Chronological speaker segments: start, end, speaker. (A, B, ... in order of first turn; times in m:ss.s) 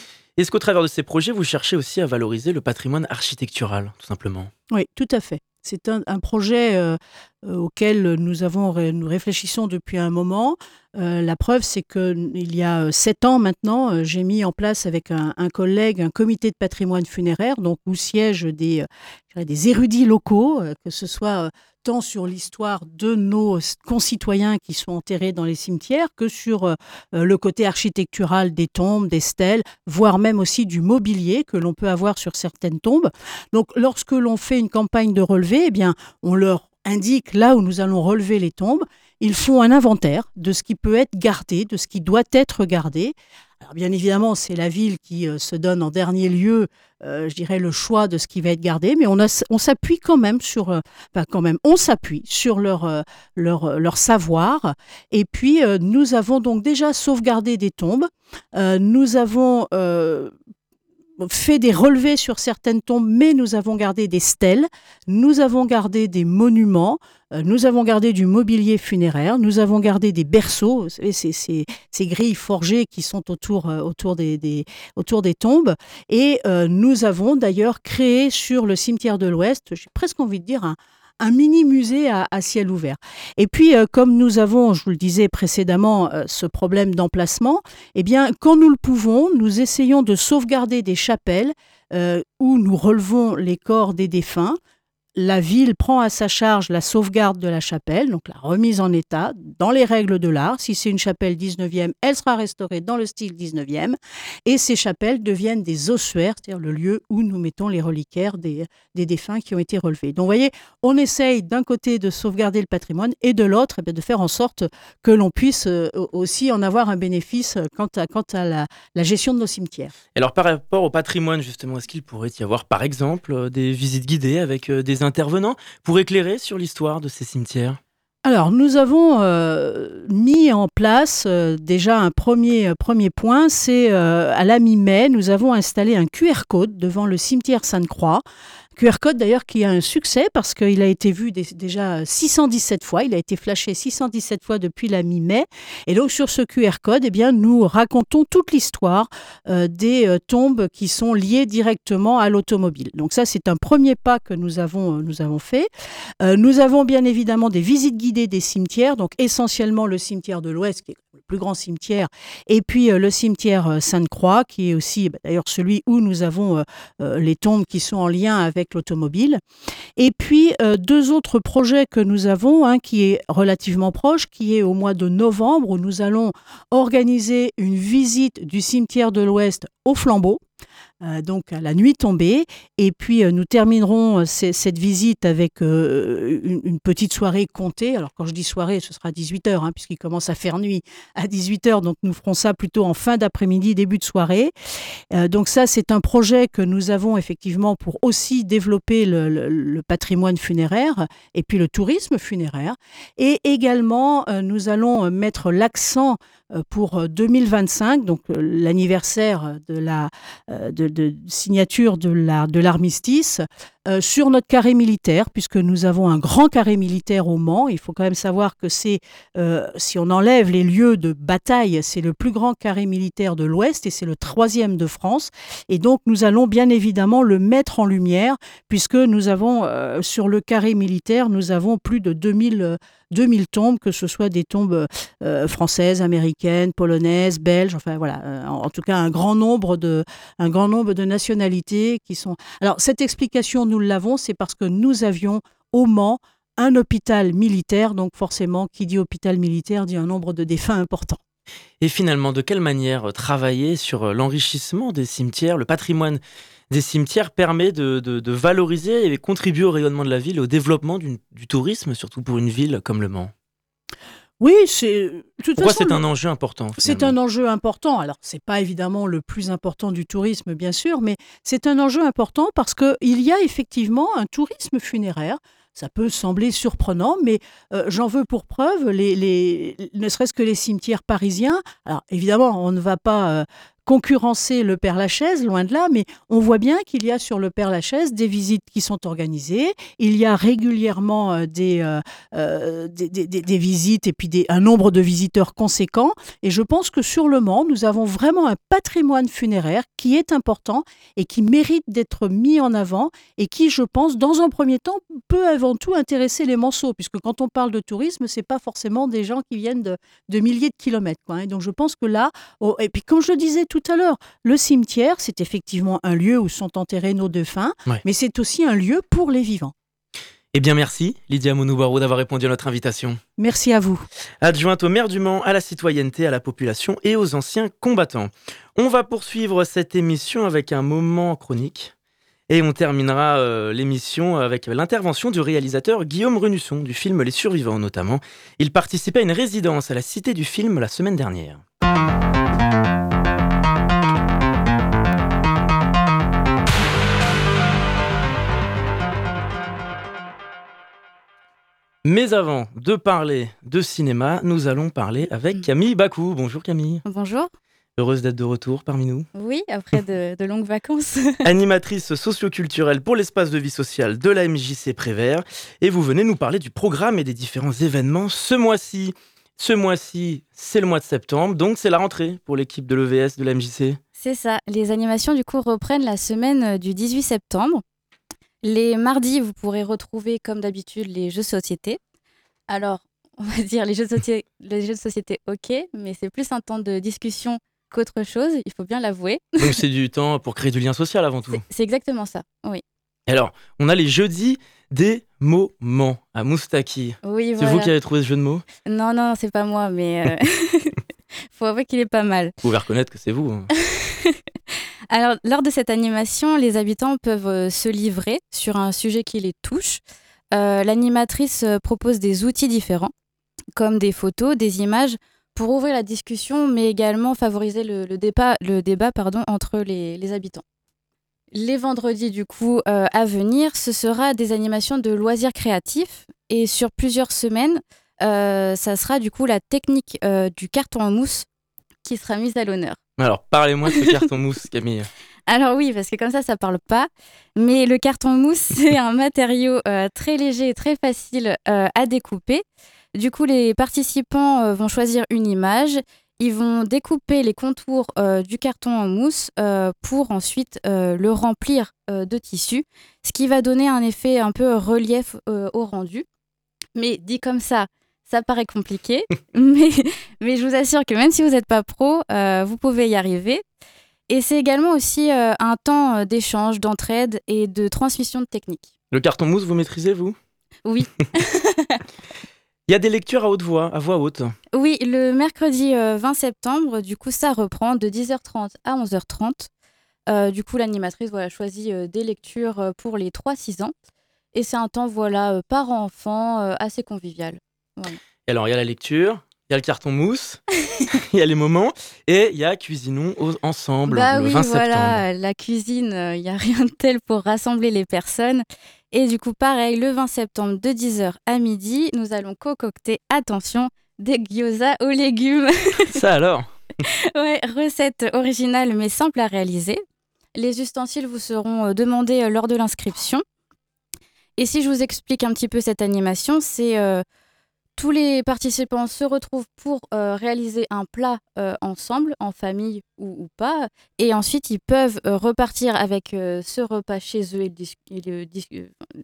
0:00.4-0:04.5 A
0:04.7-1:00.3 B
1:01.2-1:34.6 B
1:35.2-1:59.9 B
2:00.1-2:07.8 A
2:08.2-2:18.2 B
2:18.8-2:35.7 B
2:36.2-2:49.4 B
2:50.0-3:00.4 B
3:01.0-3:14.5 B
3:15.1-4:11.2 B
4:11.8-4:23.3 A
4:24.4-4:26.0 B
4:25.6-4:27.1 A
4:26.8-5:19.7 B
5:20.5-5:23.2 A
5:23.4-5:24.0 B
5:24.4-5:31.9 A
5:32.5-5:41.6 A
5:52.0-5:57.0 A
5:57.0-5:57.5 C
5:58.0-5:59.3 A
5:59.3-6:01.4 C
6:01.4-6:14.0 A
6:14.2-6:17.8 C
6:18.6-6:22.0 C
6:22.7-6:29.8 C
6:29.6-6:31.6 A
6:31.5-6:32.8 C
6:33.3-6:38.6 A
6:37.2-6:37.9 C
6:38.8-6:41.0 C
6:41.5-6:42.5 C
6:42.6-6:43.7 A
6:43.8-6:44.4 C
6:45.1-6:50.0 C
6:50.5-6:53.1 C
6:53.7-7:00.6 C
7:01.5-7:11.4 C
7:12.0-7:13.0 C
7:13.2-7:15.1 A
7:13.9-7:14.2 C
7:15.5-7:22.6 C
7:23.1-7:36.2 C
7:36.9-7:43.6 C
7:44.3-7:48.9 C
7:49.1-7:50.4 A
7:50.8-7:52.0 C
7:52.9-7:54.5 A
7:54.7-7:59.7 C
8:00.3-8:03.9 C
8:04.5-8:08.2 C
8:08.4-8:15.2 A
8:14.1-8:26.2 C
8:26.0-8:26.7 A
8:27.3-8:30.0 C
8:30.5-8:33.4 C
8:34.6-8:37.2 C
8:38.0-8:49.0 C